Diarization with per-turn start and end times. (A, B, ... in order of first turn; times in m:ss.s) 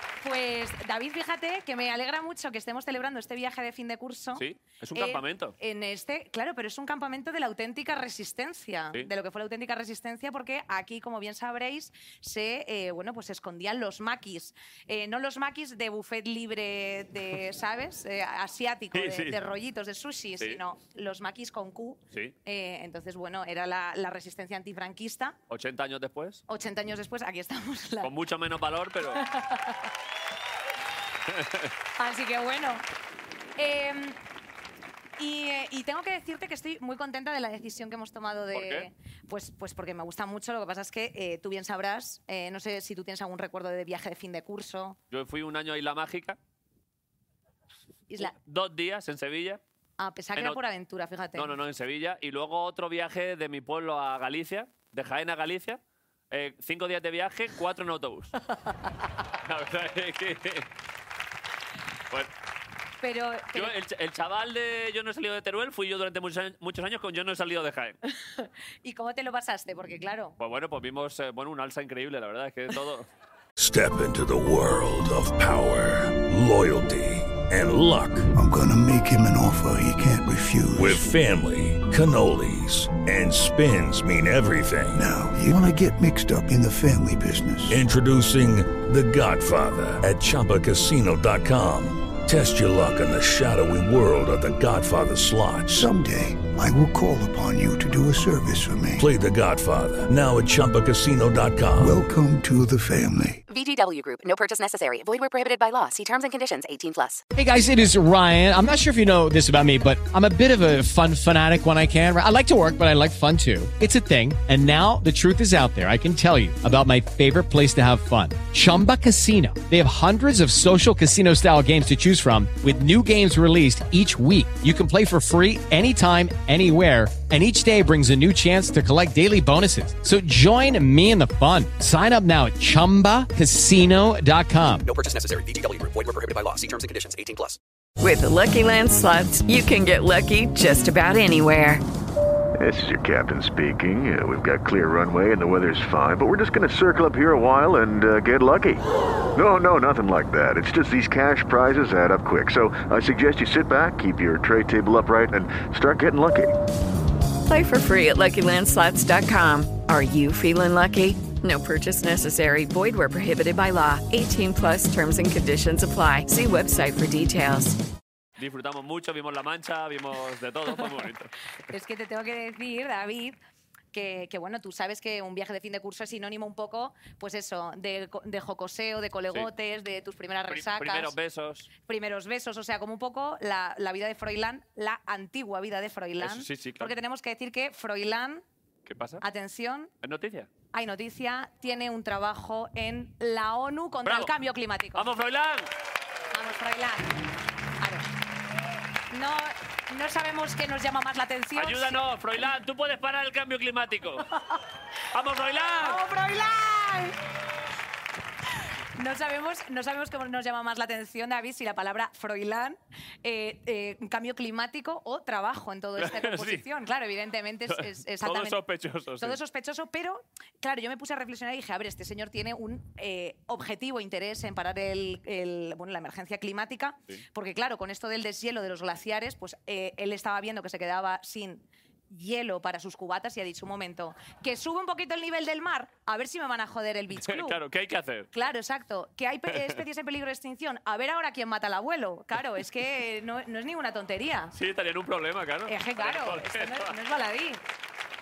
0:00.2-0:04.4 A
0:04.4-0:05.6 B
0:05.0-0:25.4 A
0:18.9-0:19.4 B
0:25.5-0:26.4 B
0:26.5-0:28.1 A
0:28.0-0:29.2 B
0:29.2-0:29.8 A
0:31.3-0:31.7 B
0:32.0-0:32.8 A
0:33.6-0:34.2 A
0:35.2-0:45.0 A
0:38.5-0:38.9 B
0:45.1-0:46.4 B
0:48.2-0:49.6 B
0:50.0-0:51.5 A
0:51.4-0:55.8 B
0:56.3-0:58.3 B
0:59.5-1:00.7 B
1:03.0-1:03.7 A
1:03.5-1:08.0 B
1:08.1-1:10.4 A
1:10.4-1:13.1 B
1:13.6-1:18.3 C
1:18.3-1:21.0 D
1:20.8-1:25.0 C
1:25.0-1:27.8 D
1:27.7-1:35.9 C
1:35.7-1:39.0 D
1:39.0-1:42.0 C
1:41.8-1:43.4 D
1:43.5-1:47.2 E
1:47.4-2:14.8 F
2:14.8-2:17.6 G
2:18.0-2:21.8 H
2:22.6-2:28.8 I
2:29.4-2:36.5 I
2:37.5-2:47.8 H
2:48.4-2:51.3 B
2:51.7-2:53.4 A
2:53.9-3:01.1 A
3:00.5-3:01.7 B
3:01.9-3:08.4 A
3:06.2-3:06.9 B
3:08.9-3:09.2 B
3:09.2-3:09.9 A
3:10.0-3:10.5 B
3:10.7-3:15.1 A
3:14.1-3:14.3 B
3:15.0-3:15.7 B
3:16.3-3:17.2 A
3:17.8-3:18.1 A
3:19.1-3:22.0 A
3:21.6-3:24.3 B
3:25.1-3:26.0 B
3:25.8-3:27.2 A
3:29.0-3:38.6 A
3:36.0-3:36.6 B
3:37.7-3:39.4 B
3:39.2-3:57.6 A
3:57.2-3:58.3 B
3:58.3-4:04.5 A
3:59.5-3:59.8 B
4:04.5-4:06.9 B
4:05.7-4:07.6 A